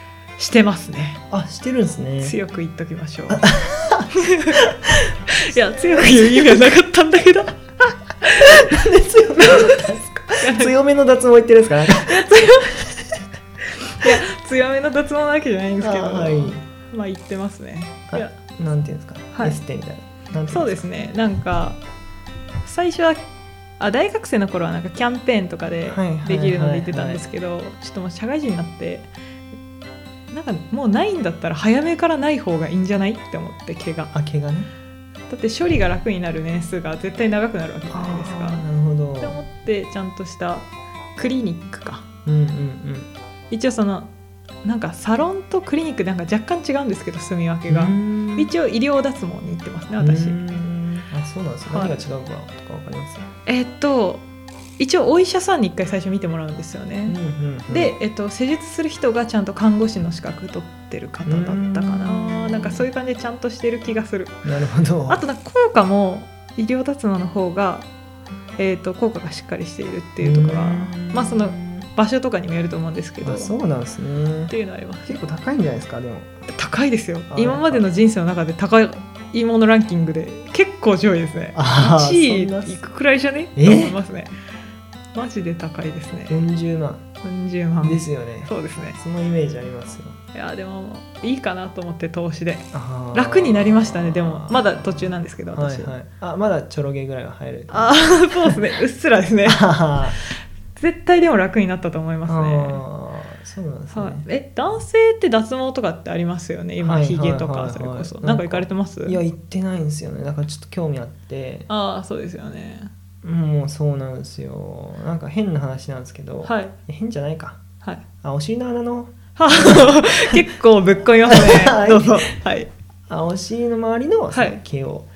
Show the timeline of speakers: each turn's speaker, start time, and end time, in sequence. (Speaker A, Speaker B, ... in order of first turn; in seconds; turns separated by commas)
Speaker A: 0.4-1.2, Speaker B: 1.3-2.4, Speaker A: 2.2-3.5, Speaker B: 3.3-4.9, Speaker A: 4.3-4.6, Speaker A: 5.4-8.5, Speaker B: 5.6-6.6, Speaker B: 8.4-12.3, Speaker A: 10.4-10.7, Speaker A: 12.1-12.9, Speaker A: 14.0-18.4, Speaker B: 15.8-16.6, Speaker B: 18.1-20.8, Speaker A: 20.5-21.8, Speaker A: 22.6-23.2, Speaker A: 23.8-29.1, Speaker B: 25.9-27.3, Speaker A: 30.3-34.1, Speaker B: 34.1-34.7, Speaker A: 35.3-38.6, Speaker B: 37.9-39.4, Speaker A: 39.2-42.1, Speaker B: 42.2-43.1, Speaker A: 43.5-44.1, Speaker A: 44.6-50.4, Speaker B: 47.7-48.5, Speaker B: 50.0-53.3, Speaker A: 51.7-52.0, Speaker A: 53.5-54.2, Speaker A: 54.8-57.2, Speaker B: 57.1-57.9, Speaker A: 57.7-64.4, Speaker B: 61.3-62.9, Speaker B: 64.5-65.2, Speaker A: 65.1-67.9, Speaker A: 68.6-73.6, Speaker B: 70.2-71.9, Speaker B: 73.2-74.5, Speaker A: 74.5-75.2, Speaker B: 75.1-76.3, Speaker A: 76.5-84.3, Speaker B: 77.3-77.9, Speaker B: 81.5-82.8, Speaker B: 83.6-84.0, Speaker A: 85.1-86.4, Speaker B: 86.3-87.0, Speaker A: 87.2-89.0, Speaker B: 87.8-90.2, Speaker A: 90.3-96.0, Speaker B: 92.7-94.9, Speaker B: 95.5-98.6, Speaker A: 97.7-99.7, Speaker B: 99.5-100.2, Speaker A: 100.8-102.8, Speaker B: 102.3-104.3, Speaker A: 103.9-109.2, Speaker B: 106.8-111.7, Speaker A: 111.7-112.9, Speaker B: 113.2-117.6, Speaker A: 116.4-116.8, Speaker B: 118.2-120.3, Speaker A: 119.4-122.7, Speaker B: 121.3-122.3, Speaker B: 123.1-125.1, Speaker A: 124.3-124.6